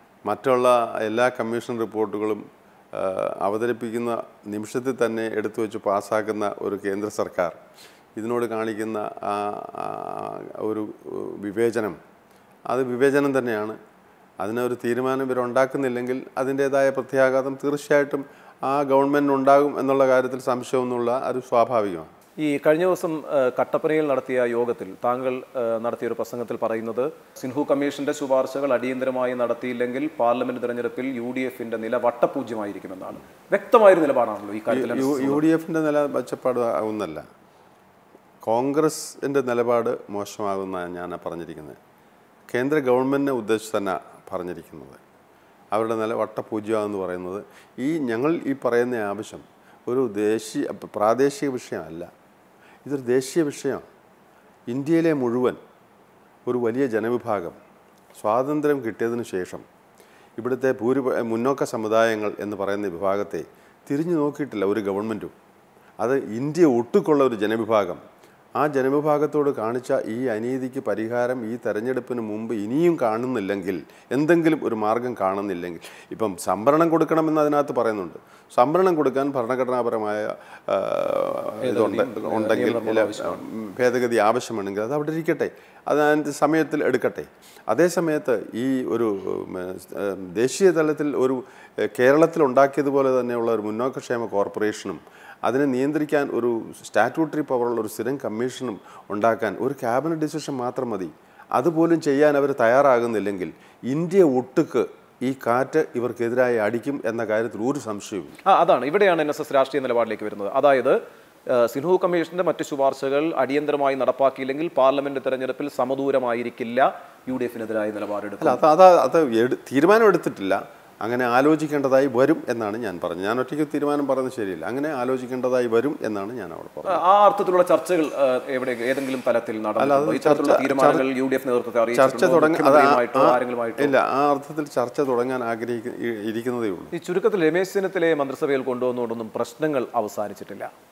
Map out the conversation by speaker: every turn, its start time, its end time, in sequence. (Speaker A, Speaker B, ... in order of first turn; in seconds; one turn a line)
Speaker A: 0.3-7.6
Speaker A: 8.2-12.0
Speaker A: 12.7-13.8
Speaker A: 14.4-22.1
Speaker B: 22.4-35.4
Speaker A: 34.7-37.2
Speaker A: 38.4-41.8
Speaker A: 42.5-45.0
Speaker A: 45.7-52.1
Speaker A: 52.9-53.9
Speaker A: 54.7-55.6
Speaker A: 56.5-57.6
Speaker A: 58.2-59.7
Speaker A: 60.4-65.3
Speaker A: 66.0-68.0
Speaker A: 68.6-108.4
Speaker B: 81.6-83.4
Speaker B: 108.5-111.0
Speaker B: 111.5-118.6
Speaker A: 118.4-127.0
Speaker B: 126.9-133.9
Speaker A: 129.8-131.1
Speaker A: 131.9-136.9
Speaker B: 136.9-140.7